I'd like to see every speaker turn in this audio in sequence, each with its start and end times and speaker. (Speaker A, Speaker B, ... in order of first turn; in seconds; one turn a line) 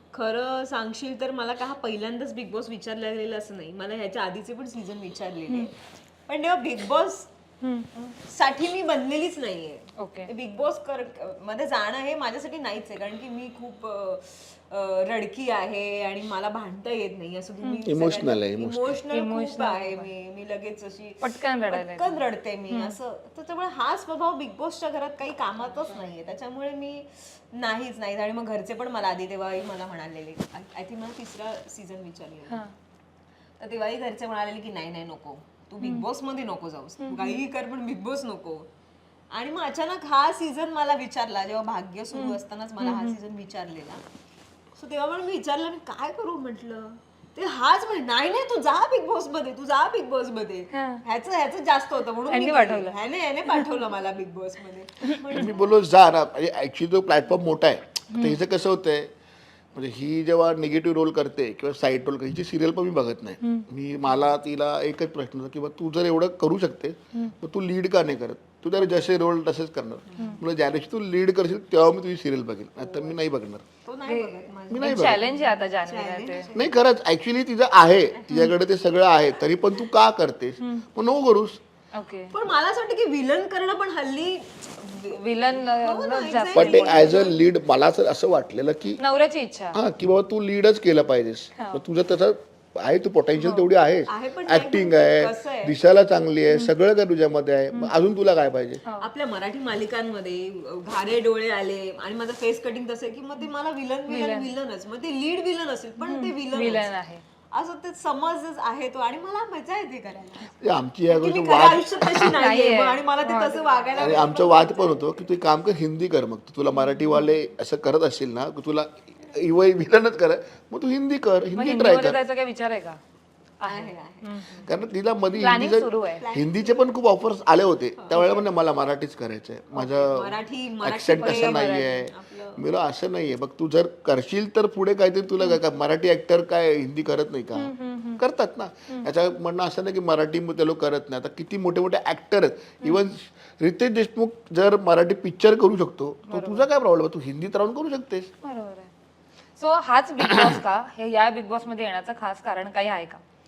Speaker A: 0.1-5.7
Speaker A: 6.3-7.3
Speaker B: 7.6-7.9
Speaker A: 7.9-32.6
Speaker B: 10.0-10.3
Speaker C: 17.9-18.9
Speaker B: 19.1-20.1
Speaker B: 21.2-23.0
Speaker B: 32.5-32.7
Speaker A: 33.6-38.7
Speaker B: 37.0-37.4
Speaker A: 39.3-44.0
Speaker B: 42.1-43.1
Speaker A: 44.8-55.6
Speaker B: 50.7-51.0
Speaker B: 52.3-52.9
Speaker C: 55.3-59.1
Speaker B: 58.1-58.4
Speaker C: 59.7-73.6
Speaker B: 63.4-63.6
Speaker A: 70.1-70.4
Speaker A: 72.8-73.2
Speaker A: 73.8-76.7
Speaker B: 74.0-76.5
Speaker C: 74.7-75.2
Speaker C: 76.5-81.6
Speaker A: 78.1-78.5
Speaker B: 80.6-80.8
Speaker B: 81.9-82.3
Speaker A: 82.3-87.4
Speaker B: 85.0-87.2
Speaker C: 86.5-89.0
Speaker B: 89.0-89.8
Speaker C: 89.7-98.8
Speaker B: 91.5-91.8
Speaker B: 93.3-93.7
Speaker A: 94.0-95.8
Speaker A: 99.0-106.9
Speaker B: 104.1-104.5
Speaker B: 106.0-107.2
Speaker A: 107.5-110.5
Speaker C: 110.6-112.3
Speaker A: 111.1-115.2
Speaker B: 112.3-113.8
Speaker C: 114.0-122.2
Speaker B: 116.9-117.2
Speaker B: 121.5-123.0
Speaker B: 123.6-124.7
Speaker A: 123.7-124.4
Speaker C: 124.6-148.3
Speaker B: 125.3-126.2
Speaker A: 126.1-127.0
Speaker A: 128.0-128.5
Speaker A: 129.7-132.6
Speaker B: 131.2-132.0
Speaker B: 137.5-138.2
Speaker B: 146.3-146.7
Speaker B: 148.4-148.9
Speaker B: 149.6-153.2